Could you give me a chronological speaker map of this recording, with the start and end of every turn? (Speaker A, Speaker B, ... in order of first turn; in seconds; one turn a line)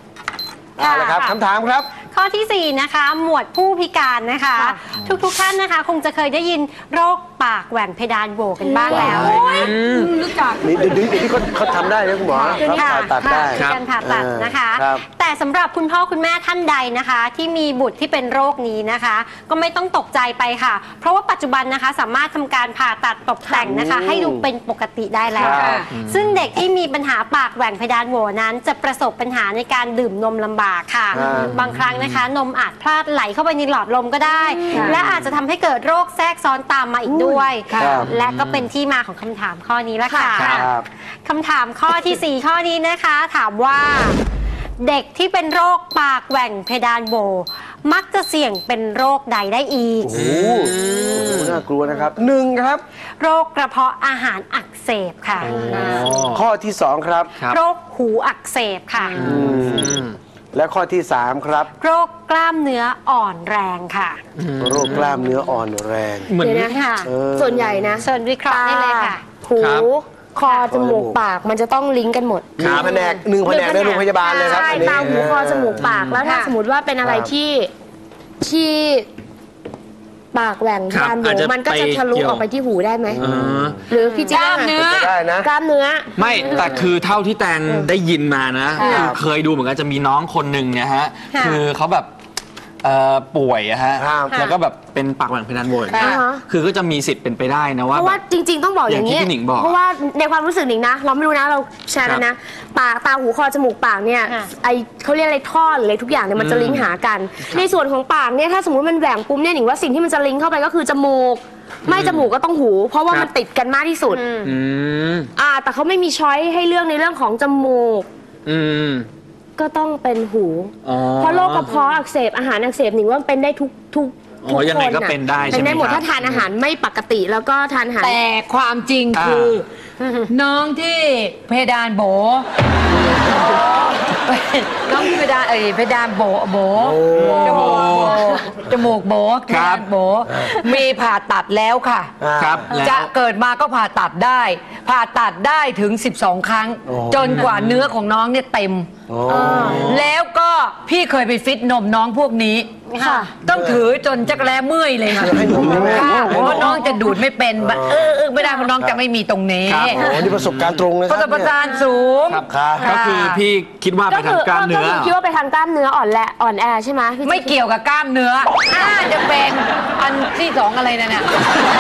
Speaker A: 0.8-1.9
Speaker B: 0.8-1.3
Speaker B: 2.1-9.4
Speaker C: 8.8-10.1
Speaker A: 8.9-9.3
Speaker D: 9.3-10.6
Speaker A: 10.6-15.0
Speaker B: 12.3-40.7
Speaker C: 13.5-13.9
Speaker A: 23.6-24.5
Speaker A: 25.3-25.9
Speaker D: 25.4-25.8
Speaker C: 25.9-26.6
Speaker A: 31.1-31.5
Speaker E: 31.1-31.5
Speaker C: 31.5-32.3
Speaker E: 34.3-35.0
Speaker C: 35.1-35.3
Speaker E: 37.0-37.5
Speaker C: 37.7-38.7
Speaker A: 37.8-38.1
Speaker E: 40.1-40.4
Speaker C: 40.3-40.7
Speaker A: 40.4-40.9
Speaker B: 41.2-44.2
Speaker B: 44.8-50.2
Speaker A: 50.0-52.8
Speaker C: 50.1-51.6
Speaker B: 53.2-56.0
Speaker C: 55.4-56.4
Speaker A: 55.5-57.3
Speaker E: 55.6-55.9
Speaker C: 57.4-57.6
Speaker B: 57.5-59.2
Speaker C: 59.2-60.2
Speaker A: 59.2-61.7
Speaker B: 61.8-64.2
Speaker C: 64.4-65.3
Speaker A: 64.6-66.3
Speaker C: 66.3-66.7
Speaker E: 66.4-77.7
Speaker B: 66.7-67.2
Speaker A: 67.0-68.0
Speaker B: 68.0-69.2
Speaker C: 69.6-69.9
Speaker A: 70.7-71.2
Speaker C: 72.6-73.0
Speaker A: 72.6-75.9
Speaker C: 75.8-76.3
Speaker B: 76.3-76.5
Speaker A: 77.0-77.3
Speaker E: 78.4-79.1
Speaker E: 80.3-83.2
Speaker C: 80.9-82.5
Speaker A: 83.1-83.7
Speaker C: 83.2-83.8
Speaker E: 83.9-84.7
Speaker D: 84.3-85.1
Speaker A: 84.6-85.5
Speaker E: 85.4-86.9
Speaker C: 86.2-92.1
Speaker E: 88.8-89.2
Speaker A: 88.8-89.2
Speaker C: 92.8-98.2
Speaker A: 94.0-94.5
Speaker E: 95.9-96.4
Speaker E: 98.0-114.3
Speaker C: 98.9-99.8
Speaker B: 104.2-104.5
Speaker C: 106.4-106.9
Speaker C: 111.9-112.3
Speaker B: 114.1-114.5
Speaker C: 114.4-115.3
Speaker E: 115.4-118.1
Speaker C: 118.5-119.1
Speaker E: 119.6-128.2
Speaker C: 120.8-121.8
Speaker C: 124.5-126.5
Speaker D: 128.0-129.6
Speaker C: 129.1-129.6
Speaker D: 130.3-132.5
Speaker D: 133.3-142.1
Speaker A: 136.8-137.7
Speaker C: 137.1-138.4
Speaker C: 139.5-139.9
Speaker A: 140.3-140.6
Speaker A: 142.2-142.7
Speaker C: 142.3-143.1
Speaker D: 142.7-160.0
Speaker A: 146.9-147.4
Speaker C: 147.3-147.9
Speaker A: 149.1-149.9
Speaker E: 149.3-149.9
Speaker C: 149.7-150.1
Speaker B: 152.9-153.2
Speaker E: 153.0-153.3
Speaker A: 153.5-153.8
Speaker A: 155.2-156.8
Speaker B: 155.8-156.4
Speaker E: 155.9-156.4
Speaker A: 157.6-158.2
Speaker C: 159.7-161.0
Speaker A: 159.9-161.6
Speaker D: 161.1-163.4
Speaker C: 162.3-165.2
Speaker A: 162.5-162.9
Speaker E: 164.1-167.6
Speaker D: 167.2-171.3